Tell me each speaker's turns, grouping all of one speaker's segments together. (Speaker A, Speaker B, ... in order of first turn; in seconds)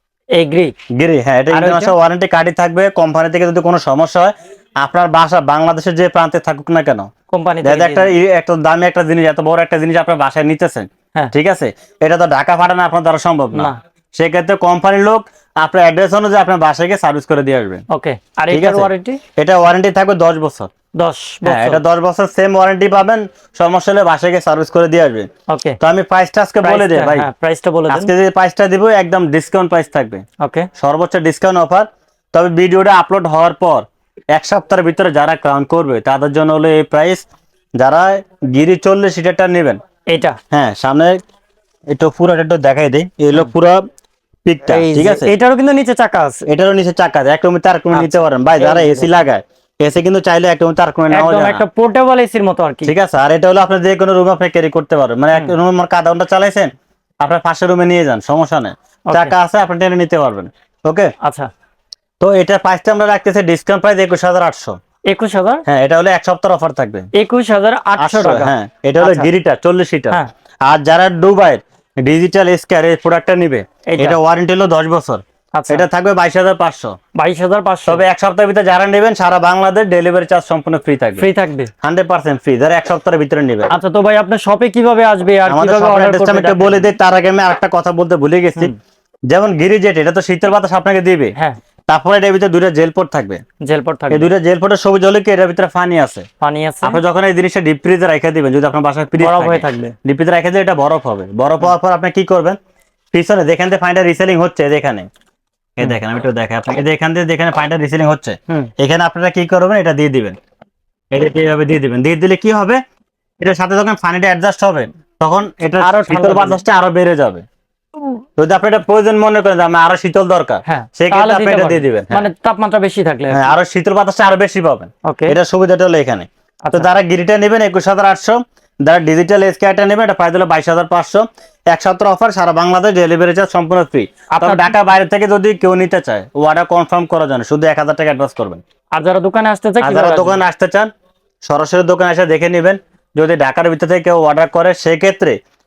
Speaker A: 0.3-0.7, 1.5-1.9, 7.3-8.1, 17.9-19.2, 21.0-21.8, 25.5-25.8, 26.6-28.1, 30.4-30.7, 40.1-40.4, 44.7-46.4, 47.9-49.2, 51.1-52.9, 59.1-59.4, 61.2-61.5, 65.1-65.6, 67.1-69.3, 73.9-74.2, 75.5-75.8, 77.2-78.0, 81.2-81.7, 83.7-86.9, 93.6-94.3, 96.4-97.0, 99.2-99.9, 115.8-116.6, 120.7-123.5, 125.0-125.3, 134.3-134.7, 138.9-140.4
Speaker B: 0.9-7.1, 7.6-17.8, 18.5-20.7, 21.4-25.3, 25.8-27.3, 27.9-30.2, 30.8-37.2, 37.8-39.8, 40.5-41.2, 41.9-43.8, 44.4-45.3, 46.5-51.6, 52.9-61.1, 62.2-64.8, 65.7-67.1, 68.0-77.0, 77.9-81.2, 81.8-83.7, 85.5-88.7, 89.3-91.3, 91.9-93.4, 94.1-96.2, 96.8-102.6, 103.1-105.1, 105.8-110.3, 111.1-112.8, 113.4-117.4, 118.4-122.2, 123.3-138.6, 139.8-140.9, 141.4-145.4